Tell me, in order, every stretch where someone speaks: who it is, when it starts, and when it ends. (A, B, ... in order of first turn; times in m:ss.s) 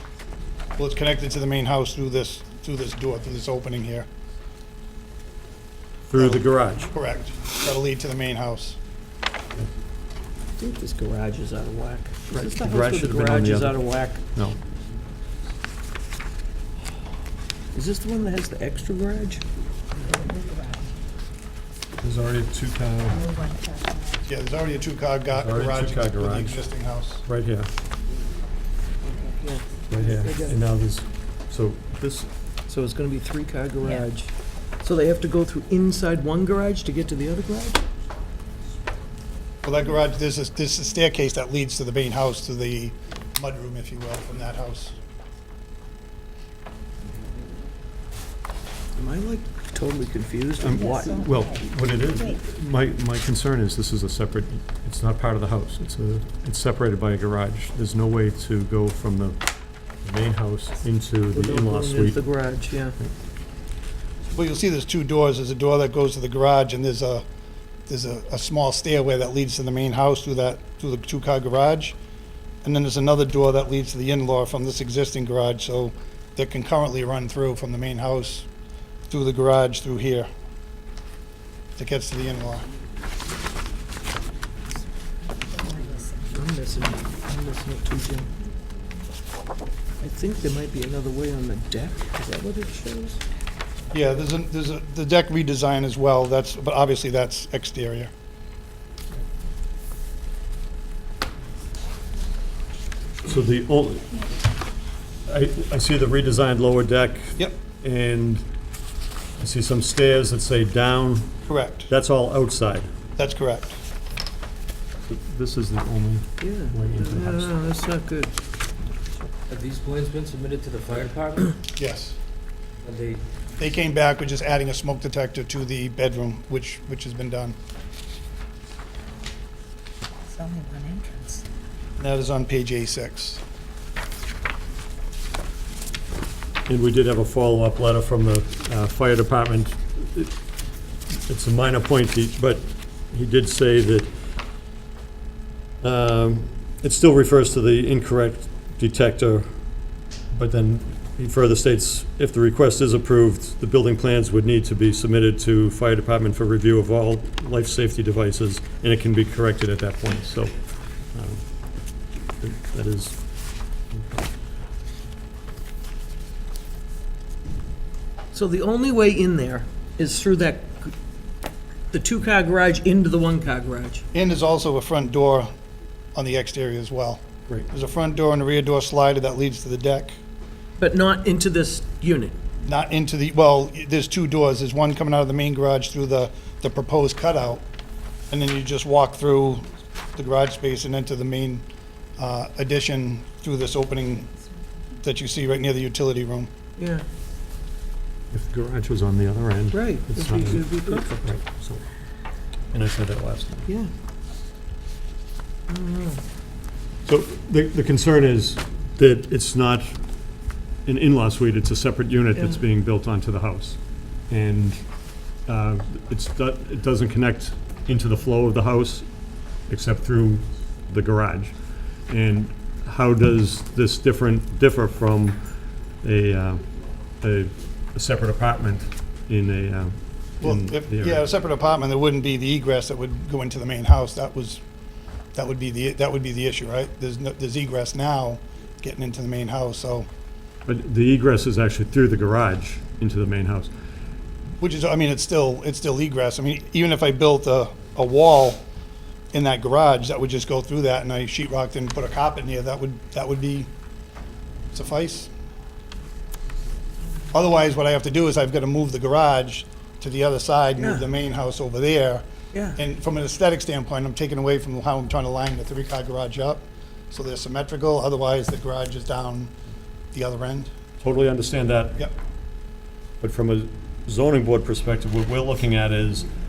0:00.8-0:04.1 A
0:06.1-0:06.9 B
0:06.1-0:08.8 A
0:10.6-0:14.2 C
0:12.3-0:14.6 B
0:17.7-0:19.4 C
0:20.1-0:20.9 D
0:22.0-0:23.3 B
0:23.2-0:24.2 D
0:24.3-0:27.2 A
0:25.3-0:26.6 B
0:27.2-0:27.7 B
0:29.2-0:30.6 C
0:29.9-0:32.3 B
0:32.7-0:37.8 C
0:39.6-0:45.0 A
0:49.0-0:51.2 C
0:50.6-0:59.4 B
0:50.9-0:51.6 D
1:00.0-1:02.2 B
1:01.3-1:03.0 C
1:04.3-1:07.2 A
1:07.9-1:12.0 A
1:12.6-1:18.4 A
1:19.1-1:20.3 A
1:21.8-1:22.7 A
1:25.4-1:26.4 D
1:26.3-1:28.3 C
1:30.0-1:33.2 C
1:33.9-1:38.1 A
1:43.2-1:44.2 B
1:45.2-1:48.4 B
1:49.4-1:52.9 B
1:51.5-1:51.9 A
1:53.2-1:53.8 A
1:55.0-1:57.5 B
1:56.4-1:58.3 C
1:59.5-2:01.4 E
2:01.8-2:02.2 A
2:02.8-2:03.2 E
2:03.6-2:07.5 A
2:10.3-2:11.4 D
2:12.0-2:13.4 A
2:16.6-2:20.3 B
2:21.1-2:24.1 B
2:25.8-2:29.5 B
2:30.3-2:40.5 B
2:41.1-2:41.4 B
2:42.4-2:43.2 B
2:43.9-2:44.2 B
2:48.3-2:50.9 C
2:51.9-2:54.0 C
2:54.1-2:55.5 A
2:56.1-3:00.2 A
3:00.8-3:02.3 C
3:02.6-3:07.6 A
3:08.3-3:11.6 A
3:12.2-3:14.3 A
3:15.0-3:16.5 A
3:16.8-3:17.0 C
3:18.3-3:21.8 B
3:19.7-3:21.2 C
3:22.7-3:23.7 B
3:25.7-3:26.2 C
3:27.0-3:30.0 B
3:30.8-3:34.9 B
3:32.4-3:32.6 C
3:35.4-3:41.6 B
3:42.1-3:45.4 B
3:46.0-3:46.6 B
3:47.2-3:51.2 B
3:50.4-3:54.6 A
3:55.3-4:00.1 A
4:00.7-4:03.7 B
4:04.6-4:08.6 A
4:09.3-4:13.7 A
4:14.7-4:15.3 A
4:17.3-4:29.5 A
4:20.8-4:21.1 C
4:22.5-4:22.8 C
4:30.1-4:30.7 A
4:31.0-4:32.1 B
4:33.2-4:36.3 B